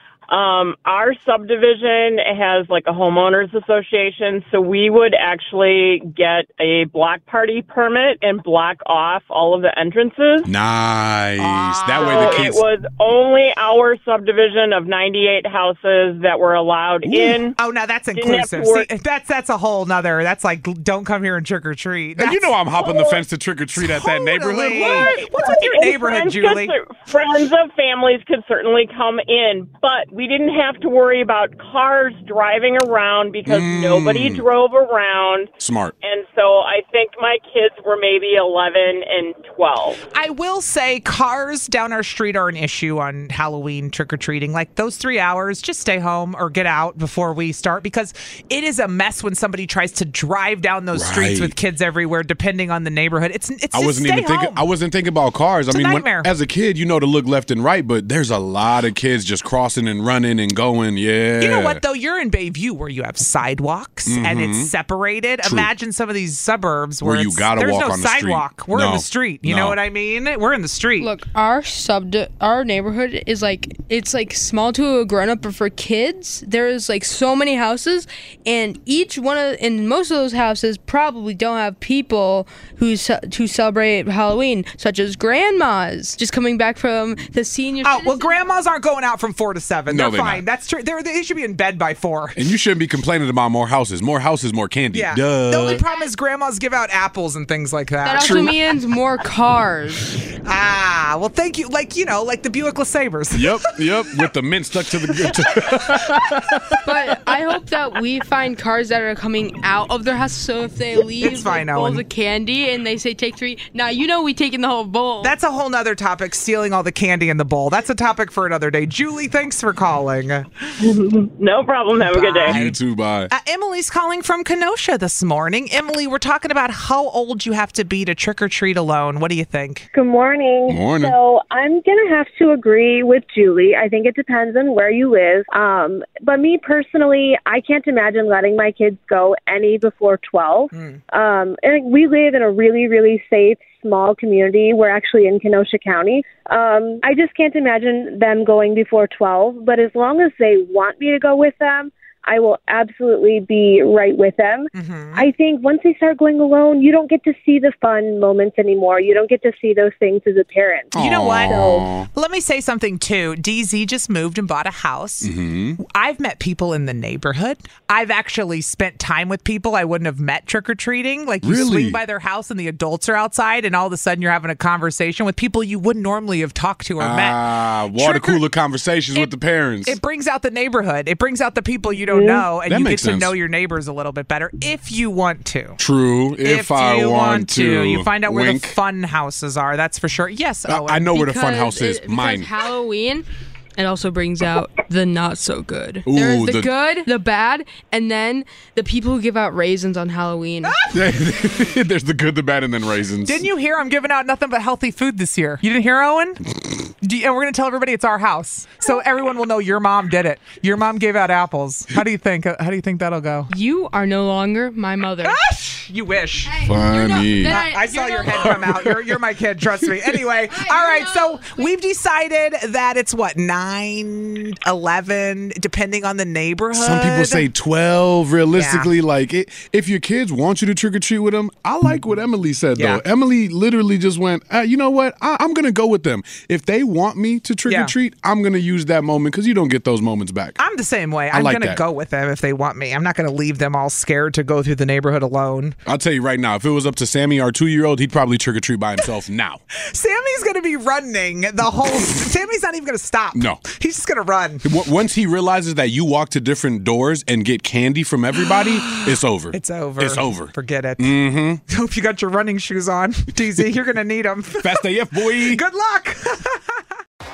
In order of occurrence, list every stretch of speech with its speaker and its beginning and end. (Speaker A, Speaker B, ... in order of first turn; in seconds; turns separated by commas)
Speaker A: 0.3-10.5, Speaker B: 10.4-12.6, Speaker C: 11.4-12.5, Speaker A: 11.9-17.6, Speaker B: 17.1-17.4, Speaker C: 17.6-22.6, Speaker A: 18.1-18.9, Speaker B: 22.2-25.2, Speaker A: 22.9-23.2, Speaker C: 23.8-26.7, Speaker A: 24.8-40.0, Speaker B: 33.5-34.4, Speaker B: 35.6-35.9, Speaker C: 40.1-54.6, Speaker B: 50.9-51.5, Speaker B: 53.7-61.8, Speaker C: 55.7-56.3, Speaker C: 61.4-71.1, Speaker B: 64.1-64.7, Speaker B: 65.4-65.7, Speaker B: 67.0-69.8, Speaker D: 71.0-88.3, Speaker C: 87.8-92.4, Speaker B: 89.9-90.4, Speaker B: 92.4-95.8, Speaker C: 94.9-98.6, Speaker D: 98.0-100.2, Speaker C: 100.4-103.7, Speaker B: 103.3-106.8, Speaker D: 106.8-115.3, Speaker C: 111.2-112.0, Speaker C: 115.2-120.5, Speaker A: 120.8-122.5, Speaker C: 122.1-122.8, Speaker B: 122.4-123.3, Speaker C: 123.3-129.9, Speaker E: 129.9-160.9, Speaker B: 130.7-131.1, Speaker C: 140.7-141.0, Speaker C: 154.7-155.3, Speaker B: 160.9-162.1, Speaker C: 160.9-178.4, Speaker E: 161.4-161.8, Speaker B: 165.2-165.8, Speaker B: 171.4-172.0, Speaker B: 177.0-180.0, Speaker C: 179.8-185.8, Speaker B: 182.6-183.3, Speaker B: 185.8-188.8, Speaker C: 186.4-191.1, Speaker B: 190.7-192.5, Speaker D: 191.1-200.8, Speaker B: 196.1-196.7, Speaker B: 200.9-203.4, Speaker C: 203.2-206.4, Speaker C: 207.0-213.5, Speaker D: 213.5-215.4, Speaker C: 215.2-216.8, Speaker D: 216.5-218.8, Speaker B: 216.6-217.6, Speaker C: 217.5-227.5, Speaker B: 218.4-218.9, Speaker D: 220.5-221.7, Speaker B: 226.7-240.6, Speaker C: 228.5-228.9, Speaker C: 232.8-233.0, Speaker C: 237.7-237.9, Speaker C: 240.6-245.8, Speaker B: 241.3-241.8, Speaker B: 245.9-249.6, Speaker C: 249.7-254.7, Speaker B: 253.3-253.6, Speaker B: 254.6-261.6, Speaker C: 258.4-266.8, Speaker B: 264.6-265.6